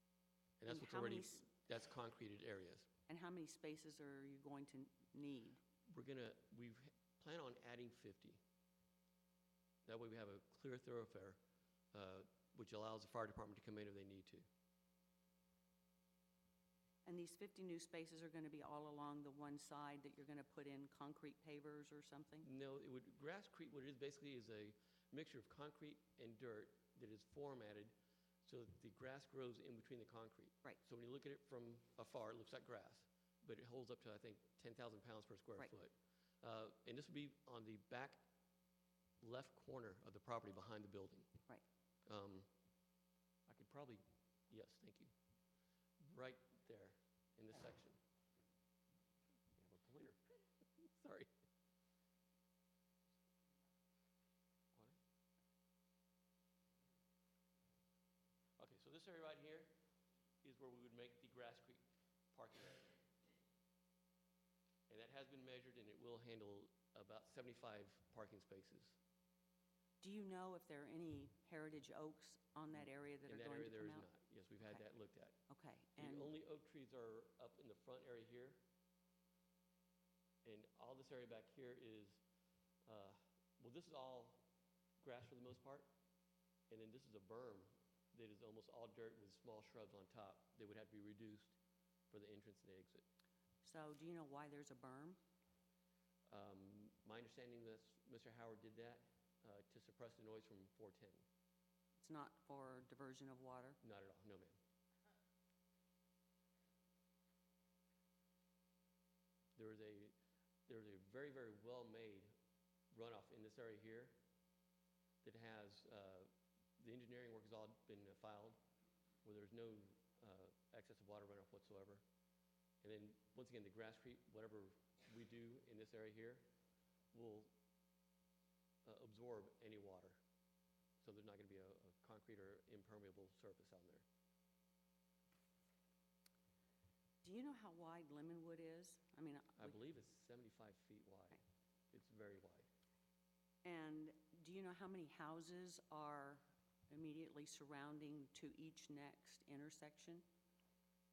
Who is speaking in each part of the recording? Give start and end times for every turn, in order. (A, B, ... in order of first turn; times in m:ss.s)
0:00.6-0:02.9 A
0:00.7-0:01.5 B
0:03.1-0:05.6 B
0:05.9-0:08.4 A
0:09.8-0:11.4 A
0:11.9-0:14.4 A
0:17.0-0:22.5 B
0:22.4-0:27.9 A
0:28.4-0:38.2 A
0:39.2-0:41.3 A
0:42.0-0:42.5 A
0:43.5-0:45.1 A
0:46.0-0:48.0 A
0:49.6-0:51.3 A
0:58.6-0:59.7 A
1:00.4-1:01.8 A
1:02.3-1:02.9 A
1:04.9-1:09.0 A
1:10.0-1:14.1 B
1:13.3-1:15.4 A
1:15.5-1:16.3 B
1:16.0-1:18.6 A
1:20.4-1:22.2 A
1:22.8-1:24.5 A
1:25.0-1:25.9 A
1:26.7-1:31.6 A
1:32.1-1:33.0 A
1:33.6-1:35.2 B
1:36.3-1:41.2 A
1:42.0-1:43.8 B
1:43.8-1:44.6 A
1:49.6-1:50.1 A
1:50.7-1:52.3 A
1:52.9-1:54.2 A
1:55.2-1:58.6 A
1:59.2-2:02.0 A
2:02.8-2:06.4 A
2:07.1-2:07.5 A
2:08.8-2:10.2 A
2:11.0-2:14.0 A
2:17.2-2:19.8 B
2:19.6-2:21.4 A
2:21.9-2:22.7 A
2:23.6-2:30.2 B